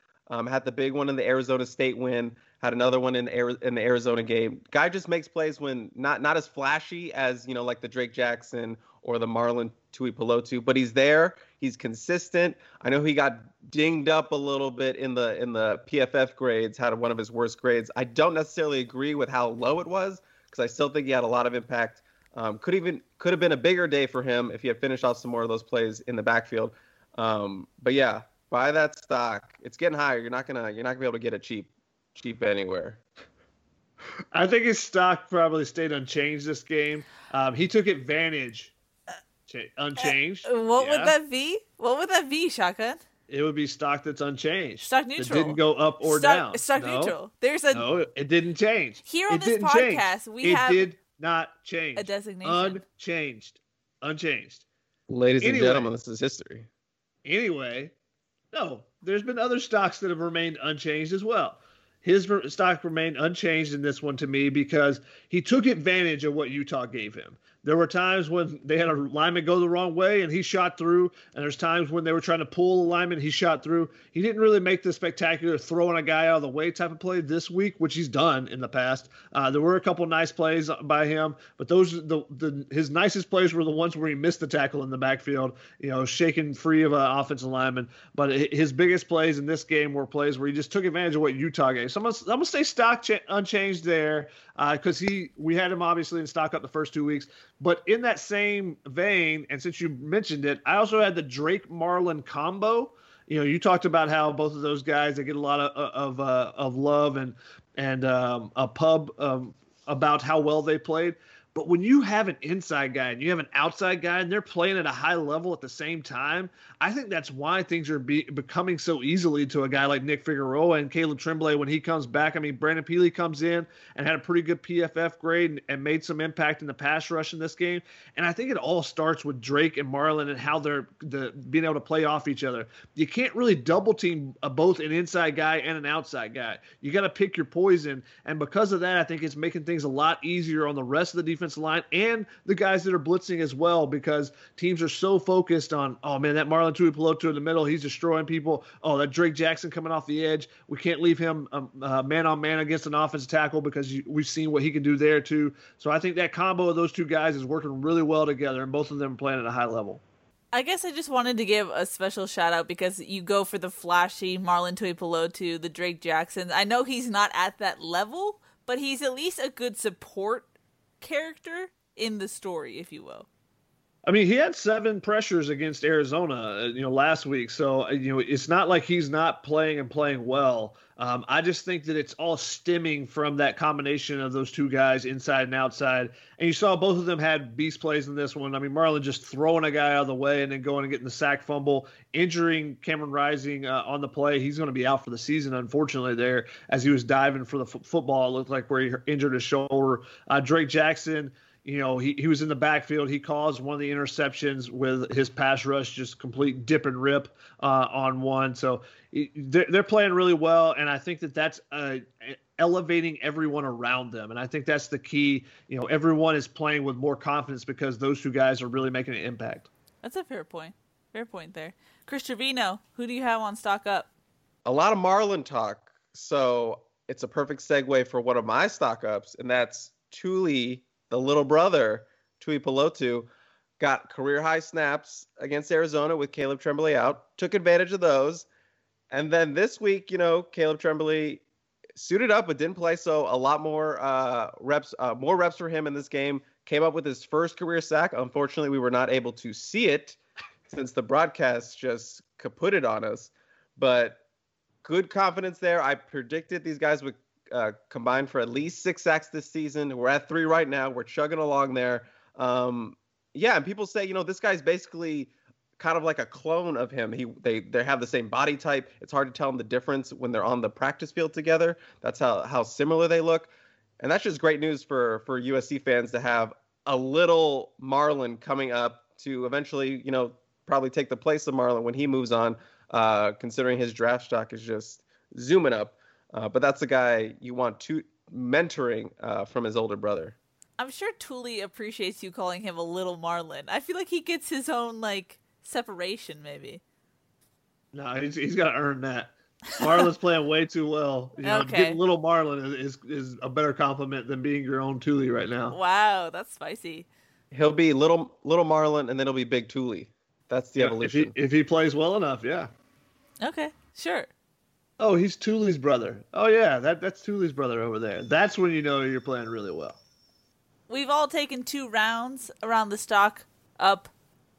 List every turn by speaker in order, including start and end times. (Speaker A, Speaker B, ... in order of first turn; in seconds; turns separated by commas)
Speaker A: 0.3-33.0, Speaker B: 34.3-38.7, Speaker B: 39.5-41.1, Speaker C: 40.0-43.0, Speaker B: 43.3-47.2, Speaker C: 44.8-47.9, Speaker B: 47.7-54.6, Speaker C: 49.0-50.9, Speaker C: 52.0-52.8, Speaker A: 55.1-56.7, Speaker B: 55.4-55.9, Speaker B: 57.2-57.9, Speaker B: 58.5-160.0, Speaker C: 160.5-170.5, Speaker C: 171.0-173.3, Speaker B: 174.1-219.7, Speaker C: 220.0-224.1, Speaker A: 224.7-233.3, Speaker A: 233.8-238.5, Speaker A: 239.1-241.4, Speaker A: 242.0-254.2, Speaker A: 254.8-273.5, Speaker A: 274.0-290.4, Speaker C: 290.8-296.8, Speaker B: 297.9-305.8, Speaker C: 301.4-302.0, Speaker C: 305.7-307.1, Speaker A: 307.5-311.3, Speaker B: 310.8-312.7, Speaker C: 313.4-314.3, Speaker B: 315.0-320.0, Speaker C: 320.9-324.1